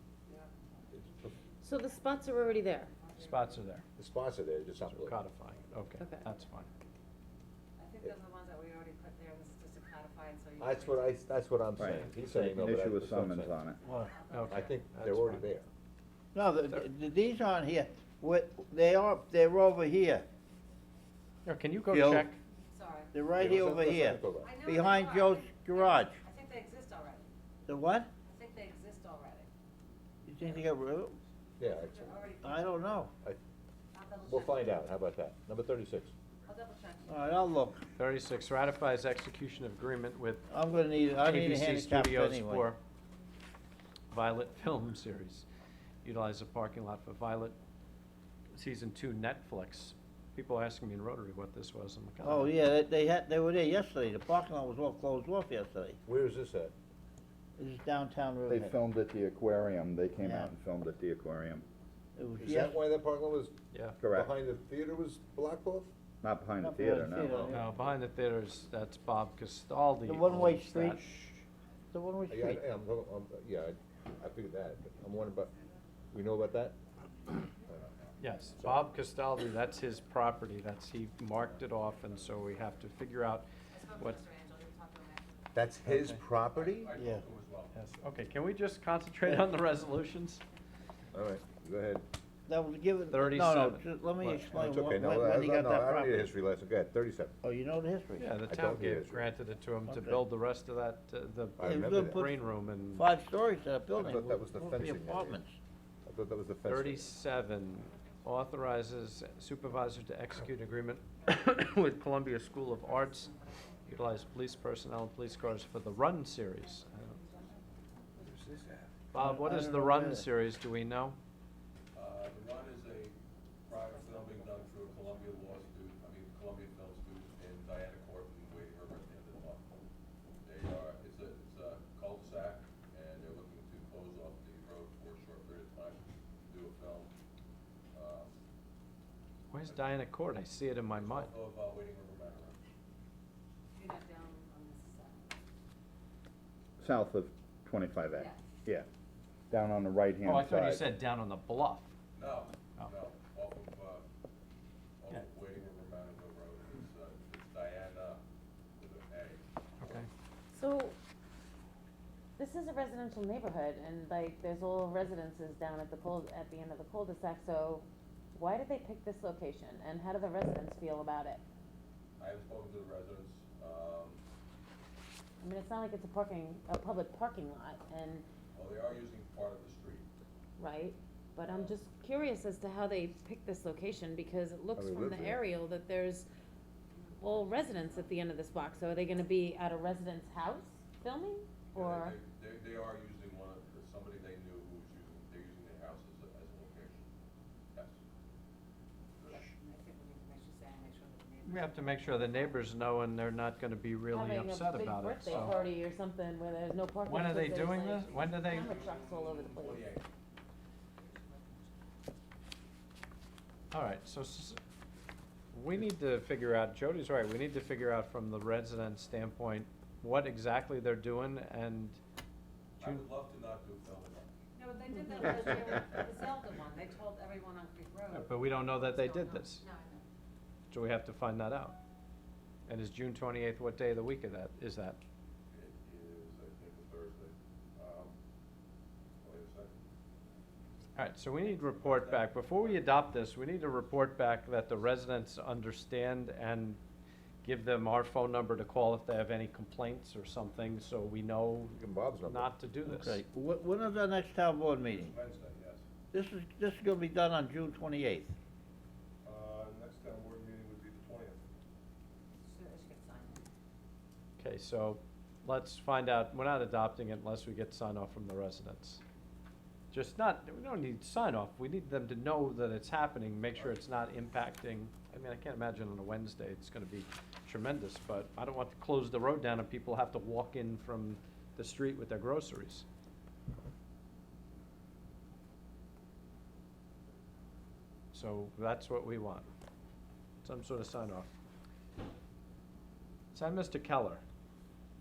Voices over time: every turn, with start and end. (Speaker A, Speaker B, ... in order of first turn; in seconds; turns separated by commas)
Speaker A: 0.3-1.0, Speaker B: 0.9-1.3, Speaker C: 1.6-2.9, Speaker A: 3.0-3.6, Speaker D: 3.2-3.9, Speaker B: 4.0-5.2, Speaker D: 4.8-6.7, Speaker C: 6.0-6.2, Speaker A: 7.8-11.2, Speaker B: 10.6-13.6, Speaker E: 11.8-13.8, Speaker A: 13.8-14.9, Speaker D: 14.3-15.5, Speaker B: 14.5-15.7, Speaker F: 16.3-20.2, Speaker D: 21.4-22.4, Speaker F: 21.9-22.3, Speaker A: 22.7-23.2, Speaker F: 23.1-26.2, Speaker B: 23.3-24.6, Speaker A: 24.3-27.3, Speaker F: 27.7-28.1, Speaker A: 28.2-29.5, Speaker F: 30.2-31.2, Speaker B: 31.6-32.4, Speaker A: 31.6-33.1, Speaker F: 32.4-33.1, Speaker A: 33.9-34.8, Speaker B: 34.2-36.1, Speaker A: 36.5-37.5, Speaker F: 37.1-37.8, Speaker D: 38.0-40.4, Speaker F: 40.5-42.7, Speaker D: 41.1-42.8, Speaker D: 44.1-45.5, Speaker D: 46.0-47.5, Speaker D: 48.5-52.5, Speaker F: 52.2-56.0, Speaker B: 56.0-56.7, Speaker F: 57.6-58.8, Speaker E: 58.5-61.6, Speaker F: 60.2-60.5, Speaker F: 62.2-62.8, Speaker B: 62.4-65.9, Speaker D: 63.7-64.0, Speaker E: 64.0-64.3, Speaker E: 66.2-67.5, Speaker F: 66.6-67.7, Speaker D: 67.5-71.1, Speaker F: 70.0-71.4, Speaker F: 71.9-72.6, Speaker B: 72.3-75.5, Speaker B: 76.1-76.8, Speaker D: 78.2-84.2, Speaker B: 78.6-78.9, Speaker G: 81.8-82.5, Speaker A: 83.7-85.4, Speaker B: 85.5-87.0, Speaker D: 85.8-86.2, Speaker G: 86.5-87.7, Speaker F: 87.0-87.2, Speaker D: 87.7-90.4, Speaker B: 91.1-92.0, Speaker F: 92.5-96.3, Speaker D: 93.1-94.6, Speaker B: 94.5-97.3, Speaker F: 97.4-98.3, Speaker D: 98.2-103.1, Speaker B: 98.4-99.3, Speaker F: 99.9-100.2, Speaker B: 101.6-102.2, Speaker F: 101.6-102.4, Speaker F: 102.9-105.6, Speaker B: 104.0-105.4, Speaker B: 106.0-107.1, Speaker D: 106.7-113.3, Speaker A: 112.6-114.5, Speaker D: 113.8-117.2, Speaker A: 116.9-118.0, Speaker D: 119.1-121.2, Speaker F: 119.2-120.2, Speaker G: 121.9-129.7, Speaker A: 123.7-125.5, Speaker G: 130.4-137.1, Speaker G: 137.9-138.3, Speaker D: 139.5-141.3, Speaker G: 140.9-142.6, Speaker A: 143.7-145.3, Speaker E: 146.8-148.9, Speaker A: 148.1-148.4, Speaker E: 149.5-150.9, Speaker D: 150.2-151.9, Speaker G: 152.1-154.0, Speaker G: 155.0-158.2, Speaker G: 158.8-160.1, Speaker D: 159.8-160.1, Speaker C: 160.5-160.9, Speaker C: 162.4-171.4, Speaker G: 172.2-174.2, Speaker C: 175.4-178.2, Speaker G: 178.5-180.1, Speaker C: 180.6-186.3, Speaker G: 181.4-181.7, Speaker B: 184.8-185.4, Speaker A: 187.0-188.2, Speaker C: 187.2-192.2, Speaker A: 188.8-189.4, Speaker G: 191.7-197.1, Speaker G: 199.2-199.5, Speaker A: 199.2-202.6, Speaker D: 201.4-205.6, Speaker C: 204.1-209.9, Speaker G: 205.3-205.7, Speaker D: 207.0-208.7, Speaker G: 208.4-210.0, Speaker A: 211.0-211.6, Speaker D: 213.7-214.6, Speaker D: 215.5-222.0, Speaker G: 222.8-224.3, Speaker D: 222.8-223.0, Speaker A: 224.5-230.0, Speaker D: 228.1-229.6, Speaker D: 230.7-231.8, Speaker D: 232.7-235.0, Speaker G: 235.5-238.1, Speaker G: 239.2-239.8, Speaker D: 240.9-246.8, Speaker G: 241.4-242.9, Speaker D: 247.4-253.2, Speaker B: 251.7-252.5, Speaker F: 252.8-255.2, Speaker G: 254.9-255.8, Speaker F: 256.1-258.3, Speaker G: 259.2-261.4, Speaker A: 262.4-263.4, Speaker D: 264.4-269.0, Speaker D: 269.9-282.9, Speaker D: 288.1-289.5, Speaker D: 290.4-291.3, Speaker D: 293.3-294.2